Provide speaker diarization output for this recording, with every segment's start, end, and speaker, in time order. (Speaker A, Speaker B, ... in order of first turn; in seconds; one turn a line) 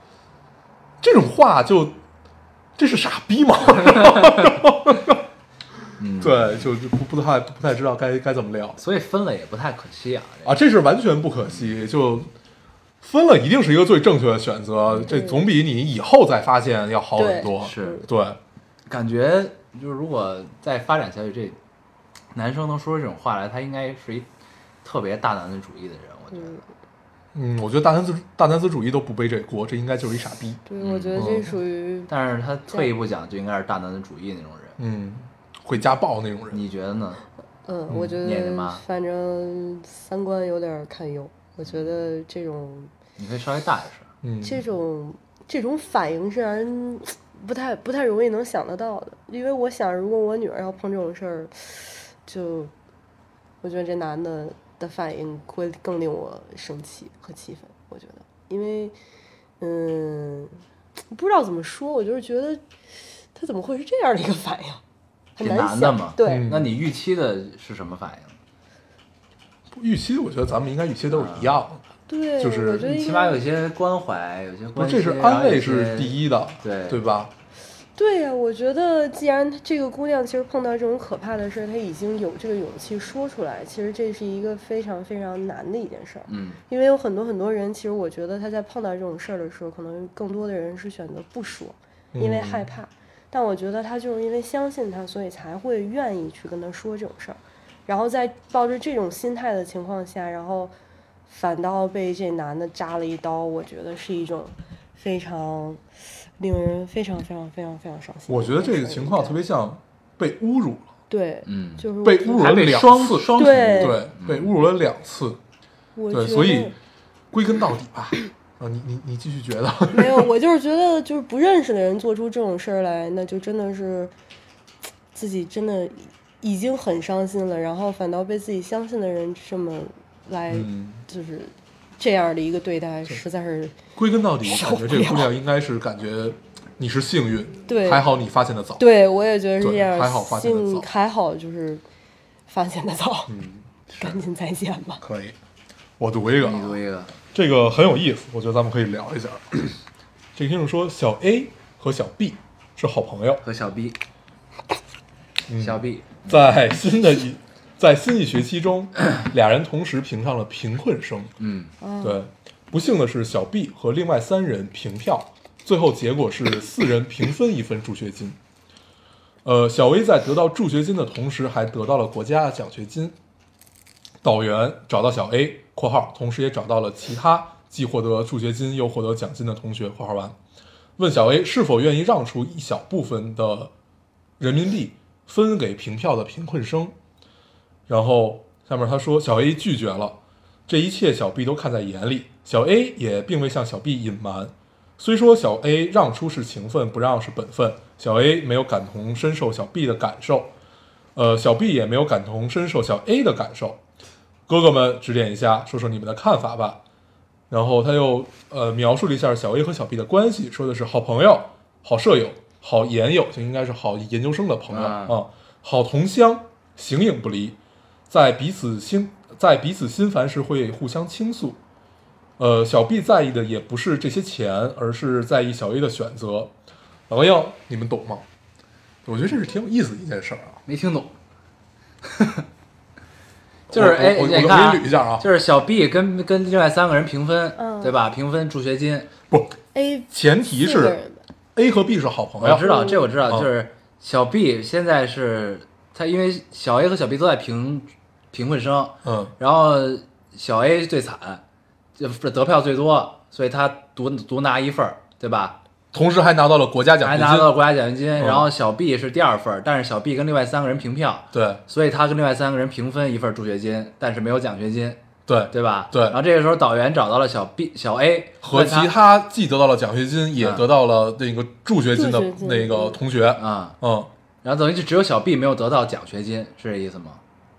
Speaker A: 1.0-2.0
Speaker A: 2.8-5.2
Speaker B: 6.0-6.7
Speaker A: 6.2-8.8
Speaker B: 8.8-10.6
Speaker A: 10.4-12.3
Speaker B: 11.4-11.7
Speaker A: 13.0-18.4
Speaker B: 14.9-15.1
Speaker C: 15.1-15.4
Speaker C: 17.1-18.1
Speaker B: 17.5-18.0
Speaker B: 18.9-21.6
Speaker B: 22.3-24.3
Speaker B: 24.8-26.6
Speaker C: 26.3-26.6
Speaker A: 27.3-30.6
Speaker C: 30.7-32.1
Speaker B: 30.8-31.3
Speaker A: 31.1-31.5
Speaker B: 32.1-34.8
Speaker A: 34.8-36.6
Speaker B: 36.5-37.2
Speaker C: 37.6-42.9
Speaker B: 38.2-38.8
Speaker B: 43.2-44.1
Speaker A: 44.2-44.6
Speaker C: 44.4-52.7
Speaker C: 53.6-59.0
Speaker C: 59.6-60.6
Speaker C: 61.1-62.6
Speaker C: 63.3-64.8
Speaker C: 65.3-66.5
Speaker B: 65.4-68.4
Speaker A: 66.2-66.7
Speaker A: 69.7-71.8
Speaker B: 71.1-71.6
Speaker C: 72.1-73.4
Speaker A: 72.4-72.9
Speaker B: 72.8-77.0
Speaker A: 74.8-77.3
Speaker C: 78.0-100.7
Speaker B: 86.3-86.6
Speaker A: 92.1-92.7
Speaker C: 101.3-105.8
Speaker C: 106.4-109.4
Speaker A: 108.3-110.9
Speaker C: 111.1-112.5
Speaker B: 111.5-114.5
Speaker A: 112.0-115.4
Speaker C: 113.3-114.0
Speaker C: 115.9-116.7
Speaker A: 116.1-116.7
Speaker A: 117.3-120.3
Speaker C: 119.9-124.1
Speaker C: 125.1-133.8
Speaker A: 130.5-131.0
Speaker A: 133.9-138.8
Speaker C: 134.4-135.3
Speaker C: 137.7-138.1
Speaker C: 138.8-141.8
Speaker A: 139.6-140.9
Speaker C: 142.5-143.3
Speaker A: 143.3-144.2
Speaker C: 144.0-145.0
Speaker A: 145.0-145.3
Speaker A: 146.0-146.8
Speaker B: 146.4-147.1
Speaker A: 147.3-149.8
Speaker A: 150.3-153.4
Speaker B: 153.4-154.0
Speaker A: 155.5-161.3
Speaker B: 155.6-156.5
Speaker B: 161.4-161.7
Speaker C: 161.8-162.3
Speaker A: 162.0-168.4
Speaker A: 169.4-173.2
Speaker A: 174.2-180.3
Speaker A: 181.0-183.7
Speaker A: 184.4-186.9
Speaker A: 187.9-200.5
Speaker A: 201.1-203.8
Speaker A: 204.5-206.8
Speaker A: 207.5-217.6
Speaker B: 214.7-215.2
Speaker A: 218.1-221.6
Speaker A: 222.4-226.5
Speaker A: 227.1-228.2
Speaker A: 229.0-230.6
Speaker B: 230.7-231.1
Speaker B: 232.0-232.4
Speaker B: 233.7-239.1
Speaker A: 233.7-235.3
Speaker C: 237.6-237.9
Speaker A: 239.3-239.5
Speaker C: 239.7-241.2
Speaker A: 240.1-241.0
Speaker A: 241.5-242.7
Speaker B: 242.4-251.4
Speaker C: 242.6-243.1
Speaker A: 249.0-249.3
Speaker B: 252.0-255.6
Speaker A: 255.9-257.5
Speaker B: 257.0-265.0
Speaker A: 258.2-258.5
Speaker A: 261.3-261.6
Speaker A: 265.3-266.2
Speaker B: 265.5-268.9
Speaker A: 268.4-274.1
Speaker B: 270.4-270.6
Speaker C: 271.9-273.0
Speaker B: 273.4-273.8
Speaker B: 274.4-277.2